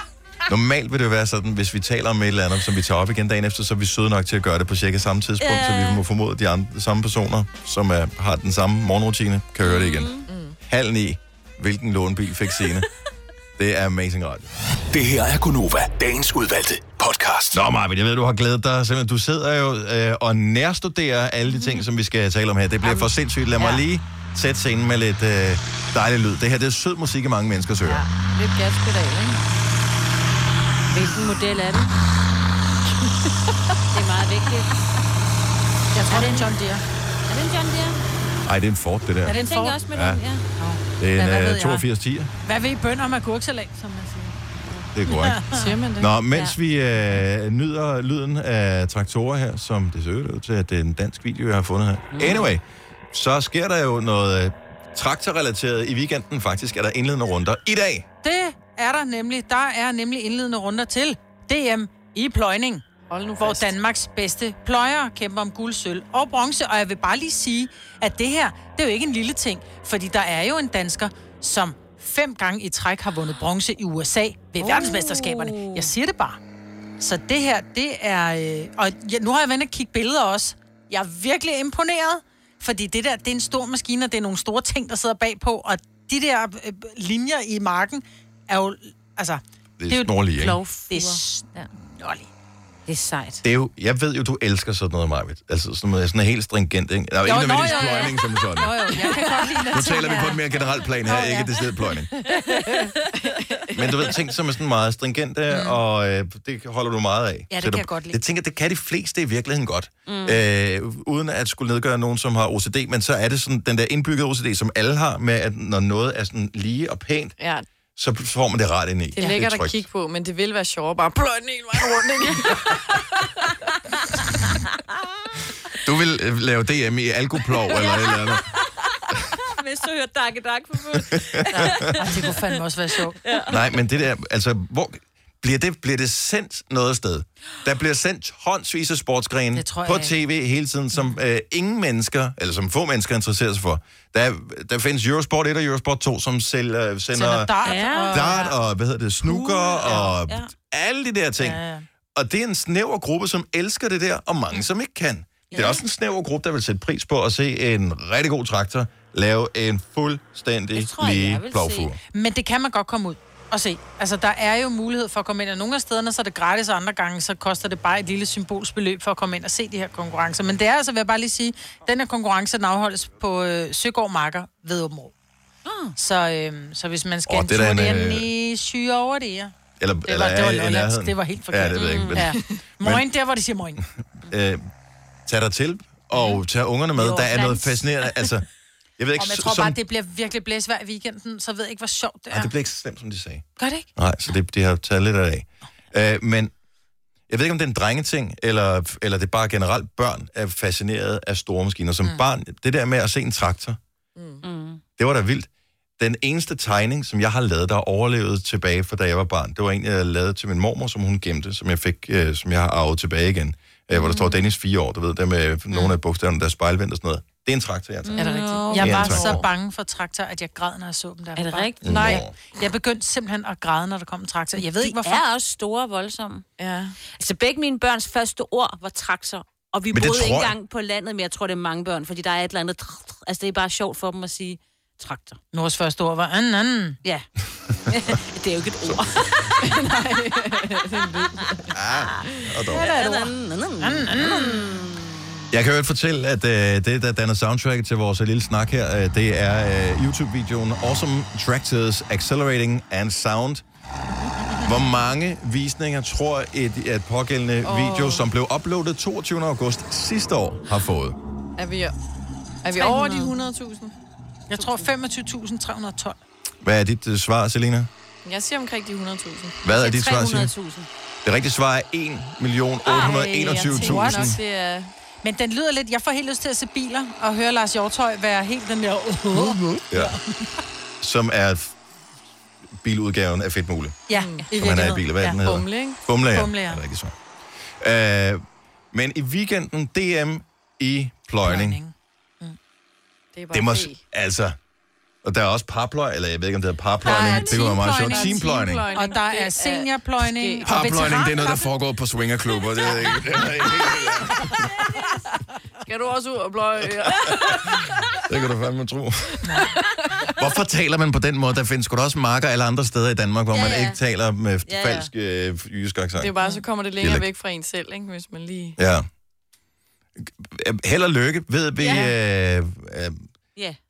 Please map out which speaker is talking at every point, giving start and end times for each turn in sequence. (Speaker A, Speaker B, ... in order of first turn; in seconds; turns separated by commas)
Speaker A: 0.5-12.9, Speaker B: 5.4-6.0, Speaker B: 9.6-10.3, Speaker C: 10.3-10.6, Speaker A: 13.6-14.5, Speaker D: 14.9-17.6, Speaker A: 17.5-28.1, Speaker C: 27.9-29.4, Speaker B: 30.9-32.0, Speaker C: 33.0-33.3, Speaker B: 33.9-34.8, Speaker E: 35.9-36.8, Speaker B: 36.1-36.5, Speaker B: 37.3-38.0, Speaker A: 38.5-39.4, Speaker E: 39.3-39.8, Speaker B: 39.3-40.5, Speaker A: 39.9-40.2, Speaker E: 40.6-41.9, Speaker A: 41.0-42.3, Speaker E: 42.4-44.4, Speaker A: 44.9-45.4, Speaker E: 45.1-45.7, Speaker C: 45.5-46.1, Speaker A: 46.0-58.1, Speaker B: 52.1-52.5, Speaker E: 58.2-62.8, Speaker C: 63.1-63.8, Speaker E: 63.4-76.4, Speaker B: 74.6-75.9, Speaker E: 77.0-90.2, Speaker A: 89.8-90.6, Speaker B: 90.4-91.7, Speaker E: 90.9-92.3, Speaker B: 92.9-93.4, Speaker A: 93.4-99.0, Speaker E: 97.2-100.4, Speaker C: 99.0-99.4, Speaker A: 99.7-102.1, Speaker E: 101.0-101.6, Speaker C: 102.5-104.2, Speaker A: 103.7-117.3, Speaker E: 105.5-105.8, Speaker E: 107.5-108.2, Speaker B: 110.1-110.4, Speaker C: 117.4-117.7, Speaker A: 118.0-119.8, Speaker C: 119.2-123.3, Speaker A: 125.7-128.4, Speaker B: 127.7-128.2, Speaker B: 129.5-132.6, Speaker A: 130.9-131.9, Speaker E: 132.0-133.2, Speaker B: 133.2-133.8, Speaker A: 133.5-147.5, Speaker E: 139.6-140.1, Speaker E: 147.1-148.5, Speaker B: 147.6-148.4, Speaker A: 148.1-151.6, Speaker B: 149.3-150.5, Speaker E: 149.8-150.1, Speaker E: 151.4-151.8, Speaker A: 152.2-162.0, Speaker B: 155.5-155.8, Speaker B: 160.8-161.9, Speaker E: 162.1-175.1, Speaker B: 175.7-175.9, Speaker E: 176.0-179.5, Speaker A: 177.3-178.3, Speaker A: 179.8-183.1, Speaker E: 180.1-183.8, Speaker C: 181.8-182.3, Speaker B: 181.8-182.2, Speaker A: 184.2-184.7, Speaker A: 185.3-188.5, Speaker E: 187.0-187.8, Speaker A: 189.0-189.8, Speaker E: 189.2-192.5, Speaker A: 192.3-196.5, Speaker E: 193.6-193.9, Speaker A: 197.3-203.8, Speaker C: 204.2-204.4, Speaker B: 204.4-204.8, Speaker A: 205.0-205.5, Speaker A: 206.0-219.4, Speaker B: 213.9-214.4, Speaker B: 218.1-219.3, Speaker C: 218.2-218.8, Speaker E: 218.7-225.2, Speaker B: 221.4-222.2, Speaker A: 221.8-222.3, Speaker B: 224.7-226.4, Speaker C: 226.6-227.0, Speaker B: 227.2-235.4, Speaker A: 229.9-230.6, Speaker E: 235.5-237.0, Speaker B: 237.9-239.7, Speaker C: 239.6-241.7, Speaker A: 241.7-242.9, Speaker E: 242.7-244.7, Speaker B: 242.7-245.4, Speaker A: 245.5-253.6, Speaker A: 254.6-261.2, Speaker C: 257.6-258.2, Speaker C: 261.6-261.9, Speaker C: 262.6-263.9, Speaker B: 262.8-263.3, Speaker E: 264.5-266.2, Speaker B: 264.6-264.9, Speaker A: 266.6-267.9, Speaker C: 268.2-269.6, Speaker A: 269.6-270.5, Speaker B: 269.7-270.9, Speaker A: 271.2-274.4, Speaker B: 272.9-273.3, Speaker E: 273.0-274.3, Speaker C: 273.1-274.9, Speaker E: 275.2-280.5, Speaker A: 279.4-280.2, Speaker A: 281.0-281.8, Speaker A: 282.8-287.1, Speaker E: 284.1-285.4, Speaker C: 284.1-284.5, Speaker C: 285.2-286.0, Speaker E: 286.3-286.8, Speaker A: 287.8-291.8, Speaker E: 291.4-292.6, Speaker C: 293.3-294.0, Speaker A: 293.5-294.6, Speaker A: 295.2-298.9, Speaker E: 297.0-301.6, Speaker C: 297.3-301.1, Speaker A: 300.6-304.7, Speaker C: 305.9-308.1, Speaker A: 307.6-309.4, Speaker C: 309.5-310.3, Speaker A: 310.4-316.3, Speaker B: 313.5-314.0, Speaker B: 314.7-315.1, Speaker C: 316.2-318.8, Speaker A: 317.0-317.3, Speaker A: 318.8-319.1, Speaker A: 320.2-323.2, Speaker B: 321.8-322.1